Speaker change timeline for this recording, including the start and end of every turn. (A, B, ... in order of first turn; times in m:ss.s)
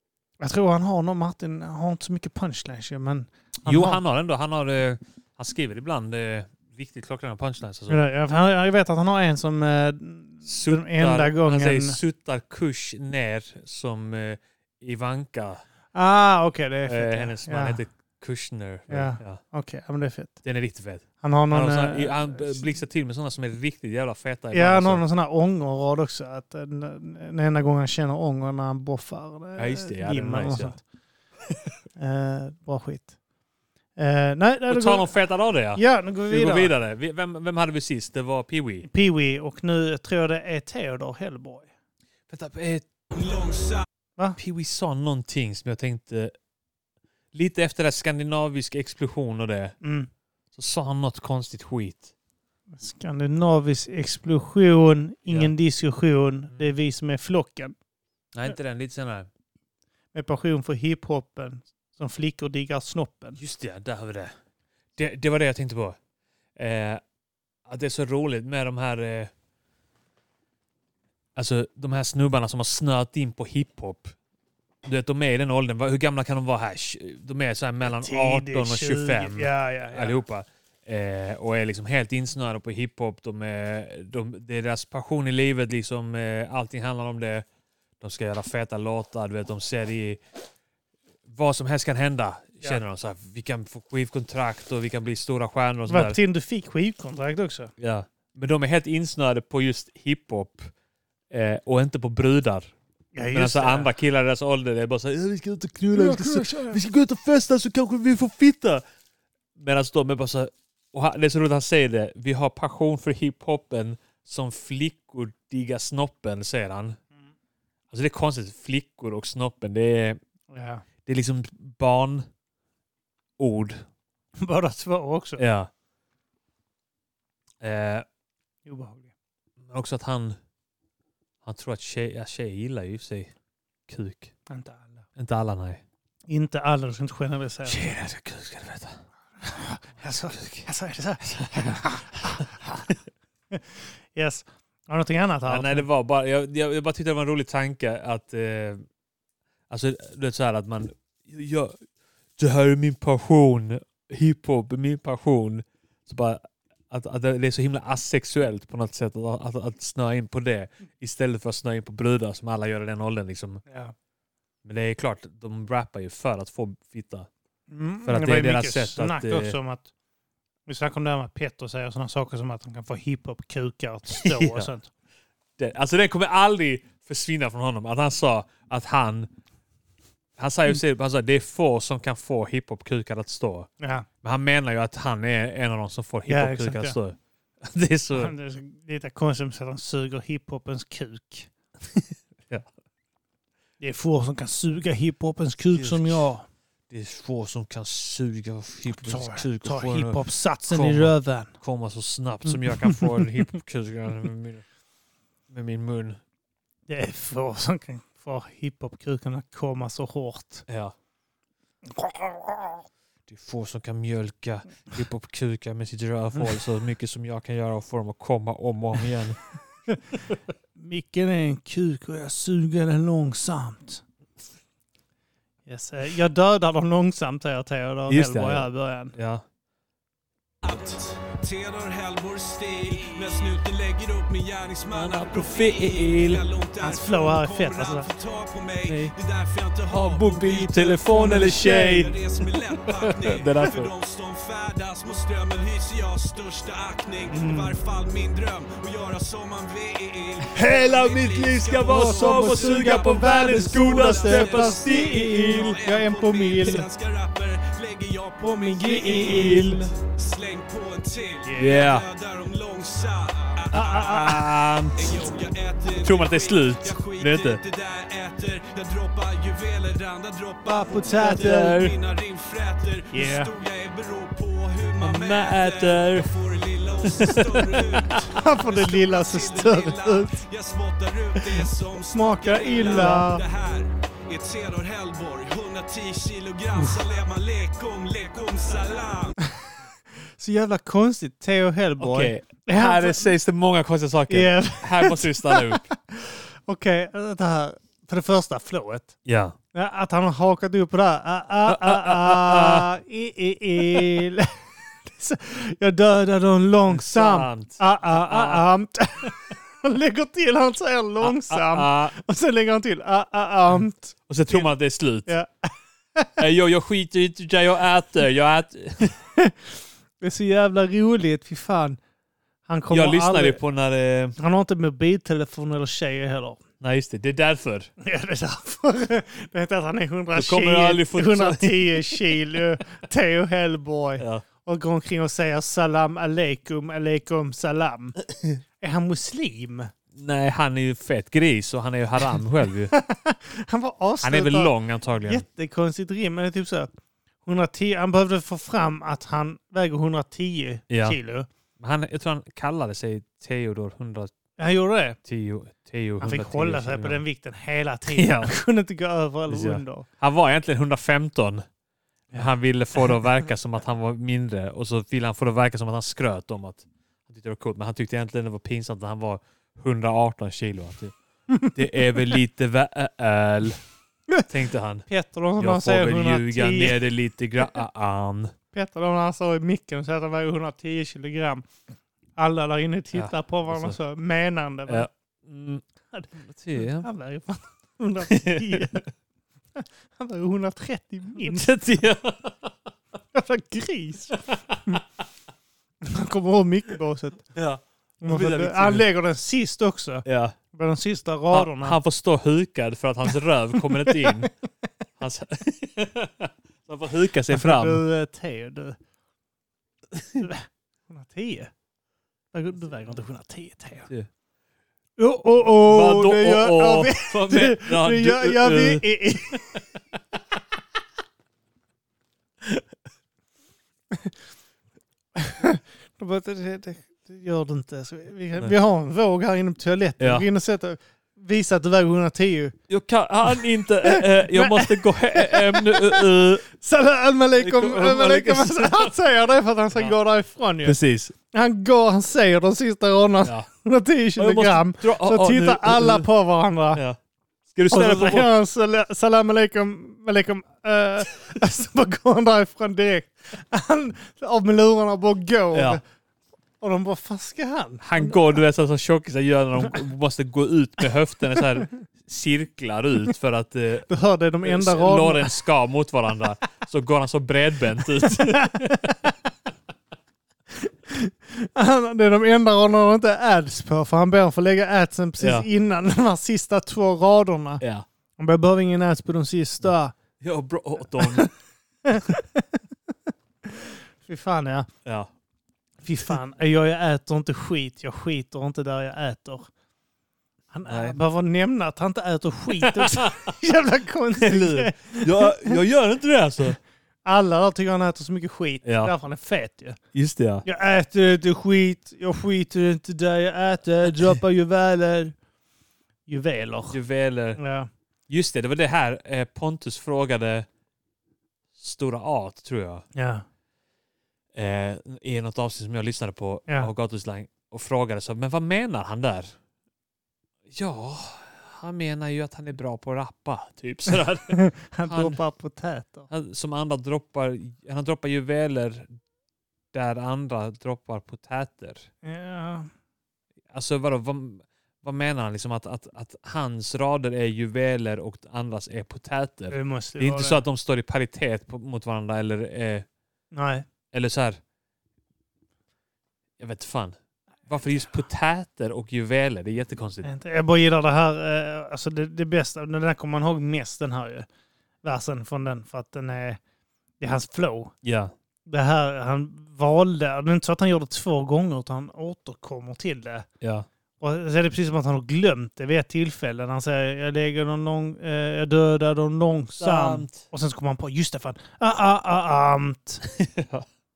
0:00.4-0:04.0 A
0:03.6-0:08.0 B
0:07.9-0:12.0 A
0:10.4-0:15.6 B
0:15.9-0:17.8 A
0:16.8-0:19.4 B
0:18.9-0:20.4 A
0:20.4-0:25.0 B
0:21.2-0:22.7 A
0:24.5-0:30.8 A
0:29.6-0:30.8 B
0:32.0-0:33.2 A
0:34.0-0:35.1 A
0:34.7-0:38.9 B
0:35.7-0:36.7 A
0:38.8-0:41.7 A
0:42.3-0:42.9 B
0:43.1-0:43.8 C
0:44.4-0:46.3 B
0:47.3-0:49.8 B
0:49.8-0:50.1 A
0:50.5-0:52.1 B
0:52.8-0:57.7 A
0:55.3-0:55.5 B
0:58.3-0:59.3 B
1:00.1-1:03.4 A
1:03.4-1:04.4 B
1:05.0-1:06.0 B
1:06.6-1:07.0 B
1:07.6-1:09.3 B
1:11.3-1:14.1 B
1:14.8-1:27.4 B
1:17.8-1:20.2 A
1:28.0-1:30.2 B
1:31.2-1:36.2 B
1:35.9-1:37.7 A
1:37.8-1:40.7 B
1:41.3-1:42.7 B
1:43.1-1:43.9 A
1:43.3-1:48.8 B
1:45.9-1:46.8 A
1:49.6-1:57.0 B
1:57.9-2:00.2 B
2:00.5-2:00.8 A
2:01.0-2:02.3 B
2:03.4-2:03.8 B
2:04.4-2:05.4 A
2:05.4-2:05.7 B
2:07.6-2:08.0 B
2:08.6-2:09.1 A
2:09.6-2:10.4 B
2:11.4-2:13.3 B
2:13.9-2:14.3 B
2:14.5-2:15.0 A
2:15.2-2:15.8 B
2:16.3-2:17.9 A
2:17.6-2:19.0 B
2:19.4-2:22.8 A
2:20.0-2:20.7 B
2:21.2-2:22.4 B
2:23.5-2:25.9 A
2:25.5-2:28.8 B
2:29.7-2:31.8 B
2:32.4-2:43.6 B
2:43.7-2:43.9 A
2:44.6-2:47.3 B
2:47.7-2:49.9 A
2:48.0-2:49.6 B
2:50.7-2:54.9 A
2:54.2-2:54.7 B
2:55.6-2:59.3 B
3:00.4-3:03.7 B
3:03.8-3:04.0 A
3:04.2-3:08.3 B
3:06.3-3:07.0 A
3:08.1-3:11.5 A
3:13.8-3:16.4 A
3:15.7-3:16.2 B
3:16.9-3:24.6 B
3:18.9-3:21.5 A
3:22.5-3:23.2 A
3:25.5-3:26.2 B
3:26.9-3:30.6 A
3:30.7-3:30.9 B
3:31.9-3:32.8 A
3:33.3-3:39.4 B
3:40.8-3:44.0 A
3:45.7-3:49.1 A
3:48.1-3:49.4 B
3:50.6-4:24.4 C
3:54.9-3:56.4 B
3:56.8-3:58.1 A
3:58.9-3:59.1 B
3:59.9-4:02.2 B
4:01.1-4:02.0 A
4:03.2-4:03.9 B
4:07.3-4:07.8 A
4:10.4-4:15.8 B
4:11.8-4:16.8 A
4:18.4-4:19.9 A
4:19.0-4:19.9 B
4:21.5-4:22.0 B
4:23.7-4:24.5 A
4:24.0-4:25.1 B
4:25.0-4:49.4 C
4:26.0-4:27.6 B
4:30.6-4:31.9 A
4:31.1-4:31.9 B
4:33.1-4:33.5 A
4:35.0-4:36.3 B
4:37.2-4:37.8 B
4:38.2-4:40.4 A
4:42.1-4:43.4 A
4:42.9-4:43.2 B
4:50.4-4:53.3 A
4:52.0-4:55.9 B
4:54.3-4:59.1 A
4:59.2-4:59.6 B
4:59.7-5:04.5 A
5:01.6-5:02.9 B
5:03.8-5:04.2 B
5:05.1-5:14.7 A
5:06.9-5:08.6 B
5:11.2-5:12.1 B
5:14.3-5:15.3 B
5:15.2-5:16.4 A
5:16.4-5:19.2 B
5:20.2-5:22.0 A
5:22.7-5:23.6 A
5:22.9-5:24.4 B
5:24.4-5:26.6 A
5:26.8-5:27.9 B
5:28.0-5:38.2 A
5:30.3-5:32.4 B
5:34.2-5:34.4 B
5:38.3-5:38.6 B
5:38.8-5:39.9 A
5:40.1-5:42.9 B
5:42.9-5:44.7 A
5:44.2-5:45.4 B
5:45.2-5:46.9 A
5:47.4-5:51.5 A
5:50.9-5:51.2 B
5:51.8-5:54.3 B
5:54.6-5:55.2 A
5:55.2-5:57.2 B
5:56.2-6:00.0 A
5:58.1-5:58.5 B
5:59.5-6:01.6 B
6:02.3-6:13.8 B
6:14.5-6:18.5 B
6:15.1-6:17.0 A
6:18.7-6:21.6 A
6:22.4-6:25.1 A
6:23.1-6:24.0 B
6:24.9-6:27.1 B
6:26.1-6:29.1 A
6:28.2-6:29.0 B
6:29.8-6:31.7 A
6:31.3-6:32.7 B
6:33.3-6:35.0 A
6:34.5-6:35.0 B
6:36.0-6:37.5 A
6:37.5-6:39.1 B
6:38.2-6:42.0 A
6:40.2-6:40.6 B
6:41.5-6:44.5 B
6:44.0-6:44.4 A
6:45.2-6:48.0 B
6:47.5-6:49.0 A
6:50.2-6:50.4 B
6:50.4-6:51.7 A
6:52.5-6:54.1 A
6:55.2-6:59.7 A
6:55.8-6:59.8 B
7:05.4-7:12.8 A
7:10.2-7:10.4 B
7:12.9-7:16.6 B
7:14.0-7:21.0 A
7:17.6-7:19.1 B
7:20.8-7:21.3 B
7:21.5-7:27.0 A
7:23.4-7:23.7 B
7:24.4-7:26.3 B
7:26.9-7:28.5 B
7:27.9-7:36.0 A
7:35.7-7:36.0 B
7:36.8-7:38.4 A
7:38.0-7:44.1 B
7:44.1-7:45.5 A
7:44.6-7:49.1 B
7:48.2-7:49.3 A
7:50.8-7:57.8 A
7:55.4-7:55.7 B
7:57.8-7:58.0 B
7:58.4-8:00.1 A
8:00.4-8:01.5 B
8:01.2-8:01.5 A
8:02.1-8:02.8 A
8:03.6-8:04.9 A
8:05.0-8:05.3 B
8:06.0-8:09.7 A
8:10.7-8:15.8 A
8:10.8-8:11.2 B
8:12.8-8:13.5 B
8:14.4-8:16.8 B
8:17.2-8:20.0 A
8:18.8-8:19.1 B
8:20.1-8:20.6 B
8:20.6-8:25.3 A
8:26.3-8:27.0 A
8:26.9-8:27.6 B
8:27.6-8:27.9 A
8:28.3-8:30.7 B
8:31.8-8:33.0 B
8:33.1-8:33.4 A
8:34.5-8:39.6 B
8:40.7-8:45.4 B
8:44.5-8:46.3 A
8:46.3-8:49.1 B
8:49.9-8:52.1 B
8:52.2-8:52.9 A
8:53.7-9:03.0 B
8:59.7-9:00.6 A
9:03.5-9:03.8 A
9:04.1-9:04.6 B
9:06.6-9:10.3 B
9:10.2-9:14.4 A
9:15.0-9:16.6 A
9:17.2-9:17.9 A
9:18.0-9:18.3 B
9:18.6-9:23.4 A
9:23.6-9:23.9 B
9:24.2-9:33.2 A
9:29.8-9:30.4 B
9:33.4-9:33.8 B